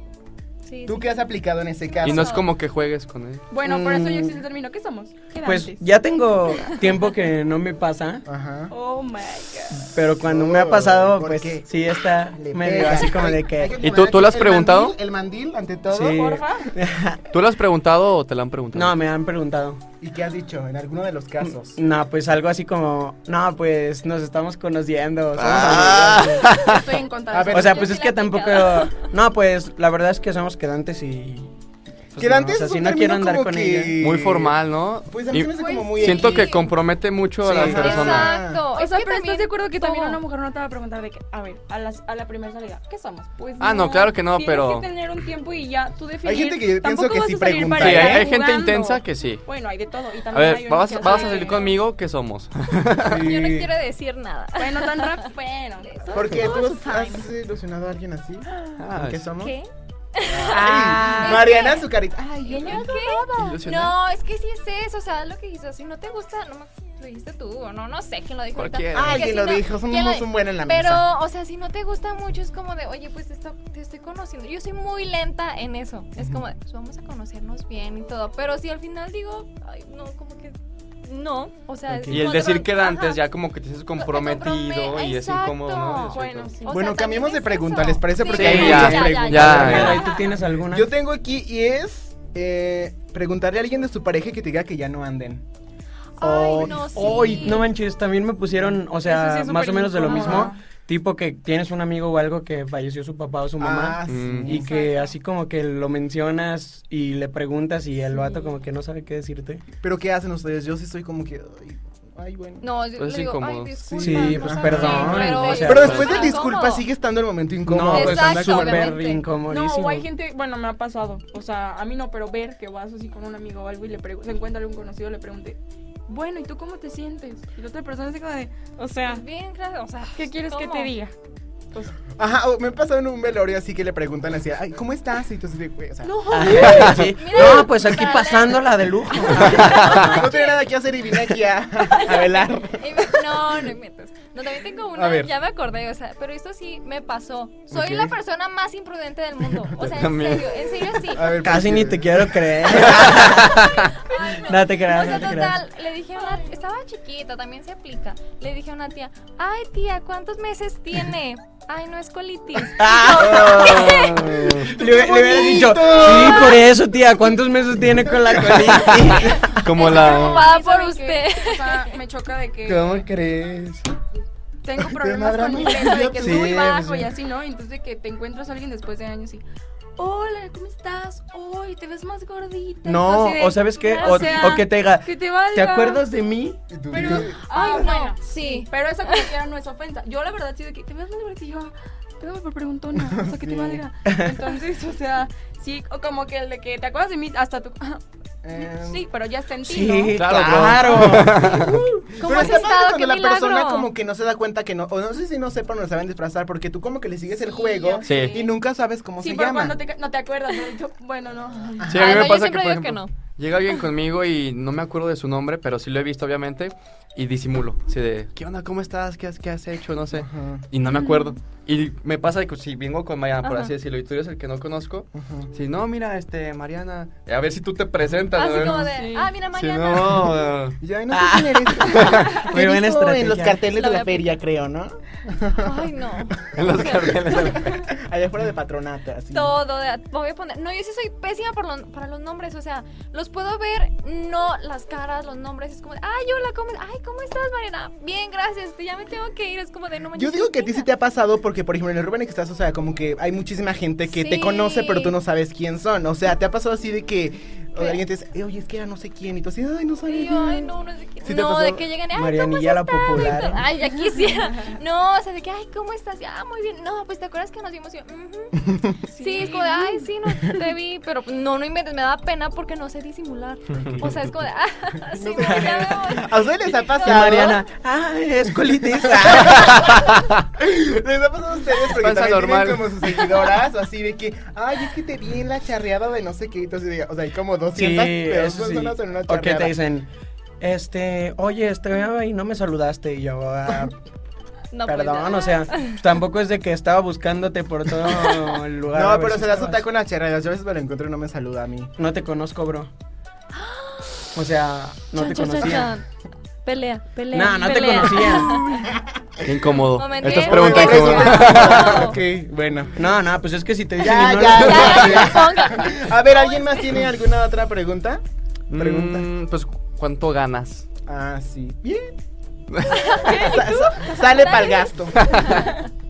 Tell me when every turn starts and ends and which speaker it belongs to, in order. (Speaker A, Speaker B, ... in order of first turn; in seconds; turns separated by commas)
Speaker A: 0.6-1.1, Speaker B: 0.8-2.4, Speaker A: 2.0-2.6, Speaker C: 2.0-3.4, Speaker D: 3.5-5.8, Speaker E: 3.6-4.4, Speaker E: 5.4-8.2, Speaker B: 8.2-8.7, Speaker D: 8.7-9.9, Speaker E: 9.7-13.8, Speaker B: 10.2-11.7, Speaker B: 12.3-16.2, Speaker C: 13.8-14.9, Speaker E: 15.9-17.2, Speaker D: 16.1-16.7, Speaker C: 17.3-18.9, Speaker E: 18.7-19.8, Speaker B: 20.0-21.8, Speaker E: 21.4-26.5, Speaker C: 25.4-26.9, Speaker B: 25.6-26.2, Speaker D: 26.6-28.0, Speaker B: 27.3-27.8, Speaker E: 27.5-31.5, Speaker A: 27.8-29.0, Speaker E: 32.1-34.0, Speaker B: 32.1-36.6, Speaker C: 34.0-38.4, Speaker A: 35.5-36.8, Speaker B: 37.4-38.6, Speaker A: 37.5-40.2, Speaker D: 38.8-51.8, Speaker C: 43.6-44.9, Speaker B: 46.2-48.3, Speaker C: 47.8-49.4, Speaker C: 50.3-53.2, Speaker B: 53.0-53.7, Speaker A: 53.1-55.3, Speaker D: 54.6-57.3, Speaker A: 55.8-56.2, Speaker B: 56.1-59.5, Speaker C: 58.8-59.3, Speaker A: 59.4-61.9, Speaker B: 60.3-63.5, Speaker D: 60.6-61.4, Speaker A: 62.5-83.3, Speaker D: 62.6-63.6, Speaker C: 63.4-64.0, Speaker C: 68.5-69.3, Speaker B: 68.9-71.0, Speaker B: 76.2-76.4, Speaker E: 81.9-82.3, Speaker C: 82.1-86.5, Speaker A: 83.9-90.3, Speaker D: 86.0-86.7, Speaker B: 86.7-90.0, Speaker C: 88.3-90.0, Speaker E: 88.4-90.9, Speaker B: 90.7-95.4, Speaker A: 96.2-97.7, Speaker B: 96.2-97.6, Speaker E: 96.3-109.6, Speaker D: 99.0-100.6, Speaker B: 100.1-100.5, Speaker B: 103.6-104.6, Speaker C: 104.1-104.6, Speaker D: 104.6-105.1, Speaker D: 108.1-108.5, Speaker B: 109.8-112.7, Speaker A: 112.6-116.9, Speaker C: 113.0-113.8, Speaker B: 113.8-119.0, Speaker E: 114.0-116.1, Speaker C: 114.7-116.2, Speaker D: 114.8-116.3, Speaker E: 117.7-120.1, Speaker A: 117.9-119.2, Speaker D: 119.4-129.2, Speaker A: 129.0-130.9, Speaker D: 130.2-131.1, Speaker B: 132.2-136.8, Speaker D: 136.0-137.1, Speaker E: 136.3-140.3, Speaker C: 136.7-137.1, Speaker A: 137.1-138.7, Speaker A: 139.2-140.6, Speaker C: 139.4-139.8, Speaker B: 139.8-143.6, Speaker A: 141.9-151.4, Speaker B: 144.9-145.3, Speaker B: 147.7-148.1, Speaker C: 149.8-151.0, Speaker B: 151.1-153.1, Speaker E: 151.4-153.6, Speaker C: 152.8-153.9, Speaker A: 153.4-164.3, Speaker E: 154.3-155.6, Speaker E: 162.8-169.5, Speaker B: 163.2-166.7, Speaker C: 163.6-164.7, Speaker B: 167.9-169.4, Speaker C: 168.7-170.5, Speaker A: 169.5-171.9, Speaker D: 169.8-173.0, Speaker B: 172.7-173.8, Speaker D: 174.6-179.4, Speaker B: 174.8-176.9, Speaker E: 176.2-177.1, Speaker D: 180.0-186.0, Speaker E: 182.8-186.6, Speaker A: 183.8-184.6, Speaker B: 186.7-187.4, Speaker D: 186.9-198.0, Speaker A: 187.0-189.3, Speaker B: 193.1-193.8, Speaker E: 194.1-194.3, Speaker B: 198.4-199.0, Speaker D: 198.6-200.2, Speaker E: 199.6-201.8, Speaker C: 200.1-201.7, Speaker B: 200.4-209.8, Speaker D: 201.0-201.4, Speaker A: 202.2-203.9, Speaker D: 202.2-202.5, Speaker D: 207.4-208.5, Speaker C: 208.0-208.3, Speaker D: 209.2-212.1, Speaker B: 211.8-212.2, Speaker C: 211.9-229.0, Speaker A: 212.0-213.8, Speaker B: 220.1-220.7, Speaker A: 220.9-221.2, Speaker A: 223.4-223.7, Speaker B: 225.1-225.5, Speaker A: 228.3-230.5, Speaker D: 228.6-229.3, Speaker C: 229.5-230.8, Speaker B: 230.8-239.6, Speaker E: 231.1-233.6, Speaker C: 231.9-232.3, Speaker A: 233.7-234.4, Speaker A: 235.6-237.8, Speaker C: 236.5-237.8, Speaker A: 239.3-250.9, Speaker B: 250.1-261.9, Speaker A: 254.1-255.2, Speaker A: 257.8-258.0, Speaker A: 260.1-277.6, Speaker E: 262.1-263.6, Speaker D: 264.0-264.4, Speaker B: 268.6-269.0, Speaker D: 269.1-270.1, Speaker B: 275.1-277.6, Speaker E: 275.4-275.7, Speaker E: 277.0-280.1, Speaker B: 279.0-289.7, Speaker C: 279.5-280.1, Speaker C: 281.8-283.3, Speaker E: 287.7-290.1, Speaker E: 290.6-293.9, Speaker A: 294.7-296.0, Speaker E: 294.9-299.8, Speaker B: 298.9-301.9, Speaker E: 302.0-302.9, Speaker A: 303.5-304.3, Speaker E: 304.3-305.9, Speaker A: 305.1-306.1, Speaker A: 306.6-308.9, Speaker E: 307.3-308.6, Speaker C: 309.4-312.1, Speaker A: 309.8-312.2, Speaker B: 310.2-312.9, Speaker E: 312.9-315.4, Speaker B: 314.0-318.2, Speaker A: 314.6-317.0, Speaker C: 314.8-315.2, Speaker C: 318.7-320.9, Speaker B: 318.7-319.3, Speaker B: 321.1-322.1, Speaker C: 322.7-323.0, Speaker A: 322.9-325.7, Speaker D: 323.1-324.2, Speaker B: 323.3-325.6, Speaker C: 325.1-325.6